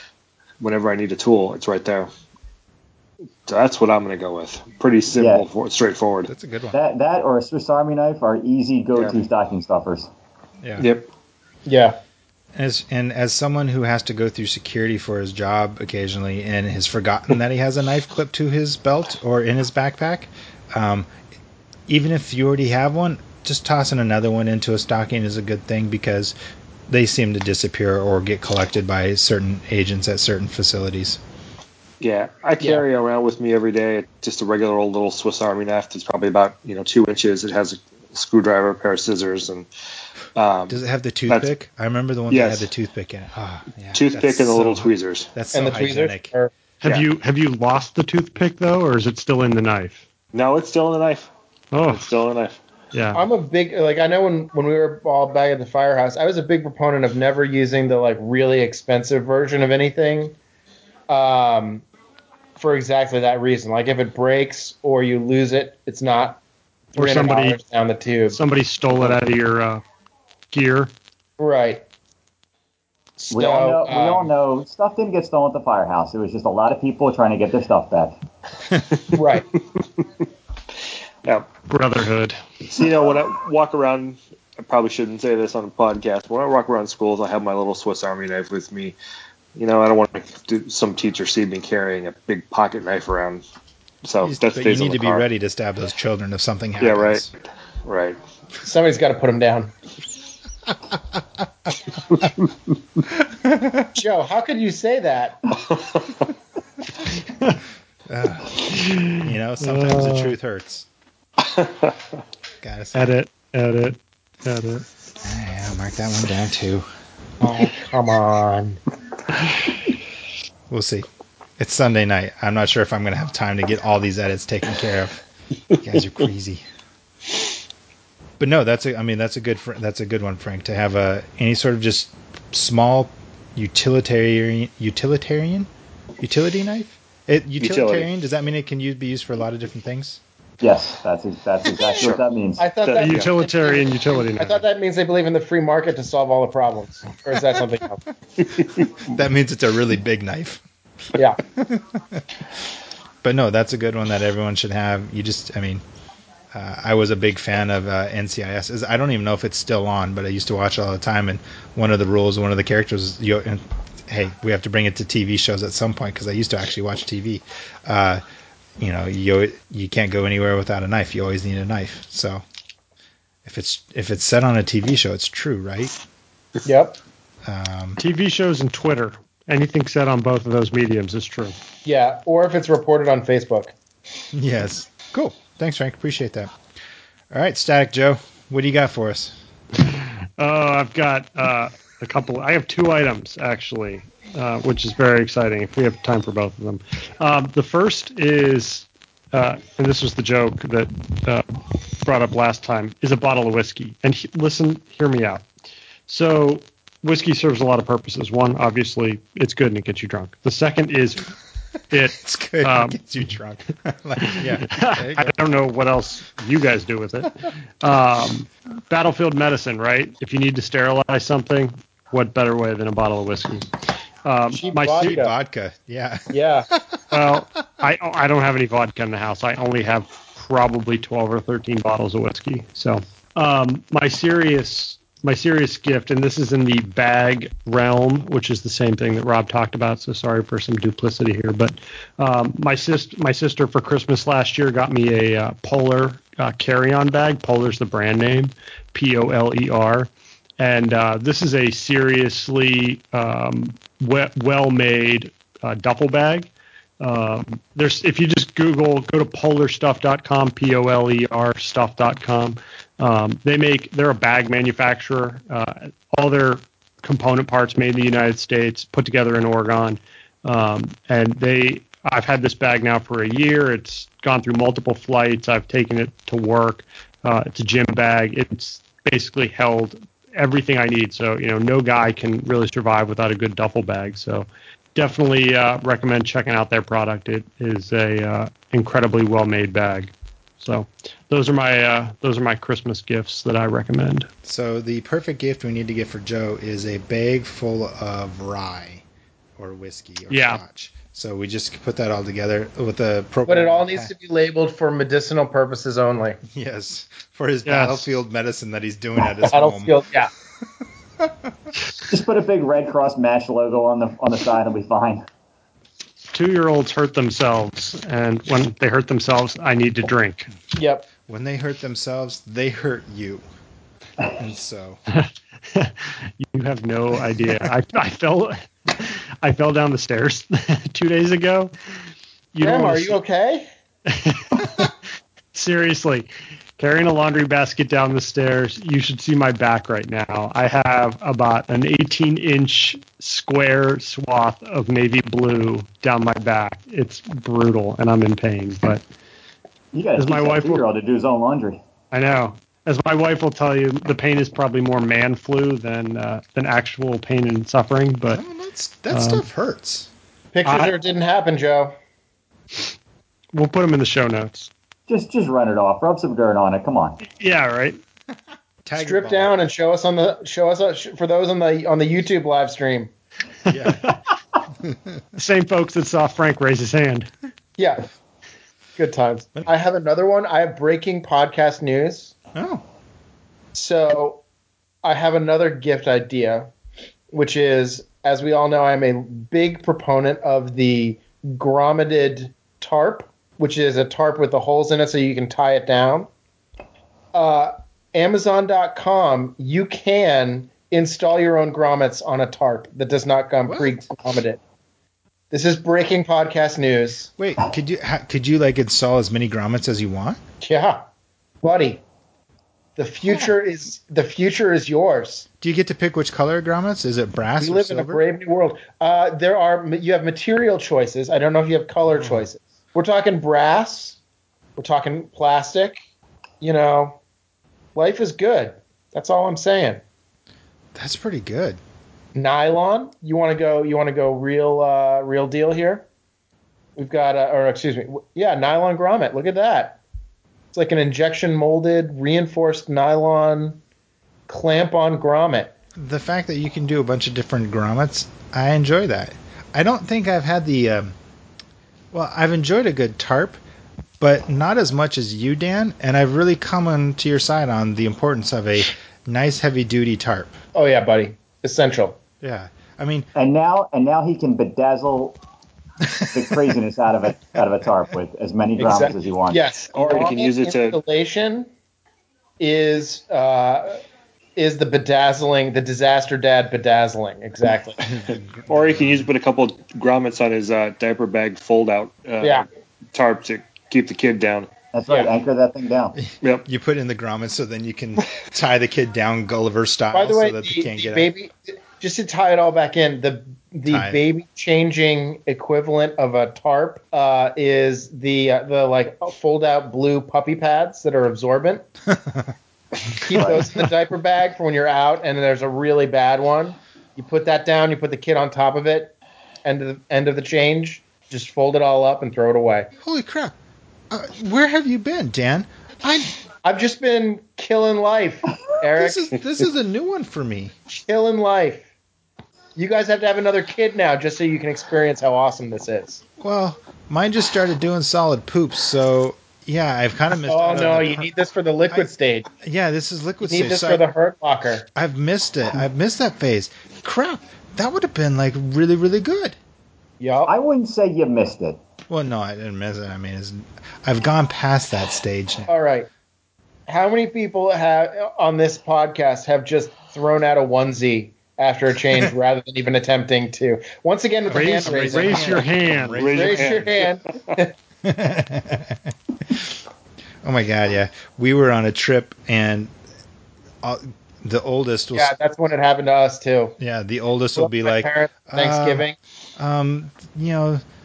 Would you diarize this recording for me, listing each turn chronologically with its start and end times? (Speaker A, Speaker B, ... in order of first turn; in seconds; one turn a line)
Speaker A: 0.6-2.1
Speaker A: 3.5-6.3
Speaker B: 5.2-5.5
Speaker C: 6.3-6.8
Speaker B: 6.7-10.1
Speaker A: 10.8-11.1
Speaker D: 11.7-12.0
Speaker C: 12.6-21.1
Speaker C: 21.9-26.3
Speaker C: 26.9-31.2
Speaker A: 32.0-39.7
Speaker A: 40.4-41.5
Speaker C: 40.7-46.3
Speaker A: 42.3-42.7
Speaker A: 43.9-45.3
Speaker D: 45.5-46.5
Speaker E: 46.8-50.0
Speaker A: 50.3-51.3
Speaker E: 51.7-52.1
Speaker A: 51.9-52.6
Speaker E: 52.9-53.2
Speaker D: 53.1-60.4
Speaker D: 61.1-61.9
Speaker D: 62.6-66.4
Speaker E: 67.0-67.6
Speaker D: 67.0-68.4
Speaker E: 68.3-69.8
Speaker E: 70.5-70.9
Speaker D: 71.4-71.8
Speaker D: 73.2-74.3
Speaker B: 73.3-78.2
Speaker D: 79.1-79.5
Speaker A: 79.5-80.0
Speaker E: 81.7-82.4
Speaker A: 82.7-89.0
Speaker A: 89.5-93.4
Speaker A: 94.0-95.2
Speaker C: 94.2-97.3
Speaker A: 96.8-97.3
Speaker A: 97.8-98.2
Speaker D: 98.6-99.7
Speaker C: 103.2-103.9
Speaker D: 104.0-105.6
Speaker A: 105.5-106.3
Speaker C: 108.1-110.9
Speaker E: 108.7-110.3
Speaker A: 111.4-112.0
Speaker C: 112.6-113.1
Speaker E: 113.0-114.8
Speaker C: 115.2-116.9
Speaker D: 117.4-118.8
Speaker C: 120.7-121.1
Speaker C: 121.6-125.2
Speaker C: 125.7-126.6
Speaker C: 128.4-135.7
Speaker C: 136.2-140.2
Speaker A: 137.6-138.1
Speaker B: 140.6-142.7
Speaker A: 141.9-142.2
Speaker D: 142.6-148.0
Speaker A: 142.8-143.3
Speaker E: 143.0-144.6
Speaker A: 148.6-148.8
Speaker C: 149.1-150.6
Speaker C: 151.5-152.2
Speaker C: 153.2-155.8
Speaker C: 156.5-168.2
Speaker C: 168.8-172.4
Speaker C: 173.4-175.9
Speaker D: 176.7-177.0
Speaker C: 177.4-178.0
Speaker E: 178.0-181.6
Speaker D: 181.8-183.7
Speaker C: 184.3-186.5
Speaker C: 187.3-189.4
Speaker E: 189.9-205.4
Speaker E: 206.1-211.3
Speaker E: 211.9-213.0
Speaker C: 212.2-215.3
Speaker E: 214.2-223.7
Speaker E: 224.2-225.3
Speaker D: 224.5-225.3
Speaker C: 224.9-227.4
Speaker D: 226.3-226.7
Speaker E: 227.1-256.5
Speaker E: 257.0-294.3
Speaker C: 294.4-299.0
Speaker C: 299.6-304.1
Speaker E: 300.3-300.6
Speaker D: 303.5-306.4
Speaker C: 306.5-310.0
Speaker E: 307.6-308.1
Speaker D: 309.5-310.3
Speaker C: 311.2-311.5
Speaker B: 312.1-315.3
Speaker E: 316.3-320.5
Speaker D: 320.7-321.1
Speaker C: 321.3-323.4
Speaker C: 324.4-325.0
Speaker E: 325.1-331.7
Speaker E: 332.5-333.2
Speaker D: 332.6-333.7
Speaker E: 334.1-334.9
Speaker E: 335.5-349.1
Speaker B: 349.9-351.8
Speaker E: 350.2-350.8
Speaker E: 352.1-358.4
Speaker C: 358.3-360.1
Speaker E: 359.1-359.4
Speaker D: 360.5-361.9
Speaker E: 360.6-361.0
Speaker E: 363.5-364.7
Speaker B: 365.1-367.2
Speaker E: 367.3-368.0
Speaker C: 368.9-369.5
Speaker D: 369.0-373.1
Speaker C: 373.7-374.2
Speaker E: 373.7-374.2
Speaker C: 374.8-375.2
Speaker E: 375.4-377.3
Speaker D: 377.8-378.1
Speaker D: 379.0-382.3
Speaker C: 382.6-382.8
Speaker D: 383.7-384.4
Speaker D: 385.0-386.7
Speaker D: 387.3-396.3
Speaker D: 397.3-404.6
Speaker C: 403.7-404.0
Speaker D: 405.5-407.3
Speaker C: 407.4-410.4
Speaker D: 410.6-411.1
Speaker D: 411.6-412.0
Speaker D: 413.0-415.5
Speaker C: 415.6-418.2
Speaker D: 417.6-424.2
Speaker C: 422.1-422.5
Speaker D: 424.8-426.0
Speaker D: 426.6-427.2
Speaker D: 427.9-430.0
Speaker C: 430.9-431.8
Speaker D: 432.4-436.1
Speaker D: 437.0-440.0
Speaker D: 440.7-443.8
Speaker D: 444.5-445.7
Speaker C: 445.9-451.2
Speaker C: 452.1-453.6
Speaker C: 454.2-460.6
Speaker D: 460.7-462.2
Speaker C: 462.4-463.3
Speaker B: 463.4-465.4
Speaker C: 466.0-466.5
Speaker B: 466.3-469.6
Speaker D: 468.8-471.7
Speaker A: 469.9-471.0
Speaker D: 472.6-474.0
Speaker D: 474.6-478.1
Speaker C: 478.0-479.3
Speaker A: 478.7-484.7
Speaker B: 484.9-486.2
Speaker C: 486.2-491.3
Speaker D: 490.1-501.8
Speaker C: 493.9-494.2
Speaker C: 502.1-502.5
Speaker D: 503.1-512.9
Speaker B: 503.3-503.6
Speaker C: 513.0-513.5
Speaker C: 514.1-516.4
Speaker D: 516.6-519.4
Speaker C: 518.9-520.7
Speaker D: 520.9-521.9
Speaker D: 522.8-526.2
Speaker C: 526.4-531.3
Speaker D: 530.5-532.5
Speaker C: 531.9-534.1
Speaker D: 533.4-534.9
Speaker C: 535.0-539.6
Speaker D: 540.2-540.5
Speaker B: 540.5-541.8
Speaker C: 542.1-545.7
Speaker D: 545.7-546.1
Speaker D: 546.9-555.7
Speaker C: 554.5-556.9
Speaker E: 554.5-556.2
Speaker A: 556.2-557.5
Speaker D: 556.2-557.7
Speaker C: 558.0-559.7
Speaker C: 560.4-562.9
Speaker C: 563.8-565.3
Speaker D: 565.1-566.8
Speaker C: 566.8-569.1
Speaker D: 567.6-569.2
Speaker C: 569.6-570.8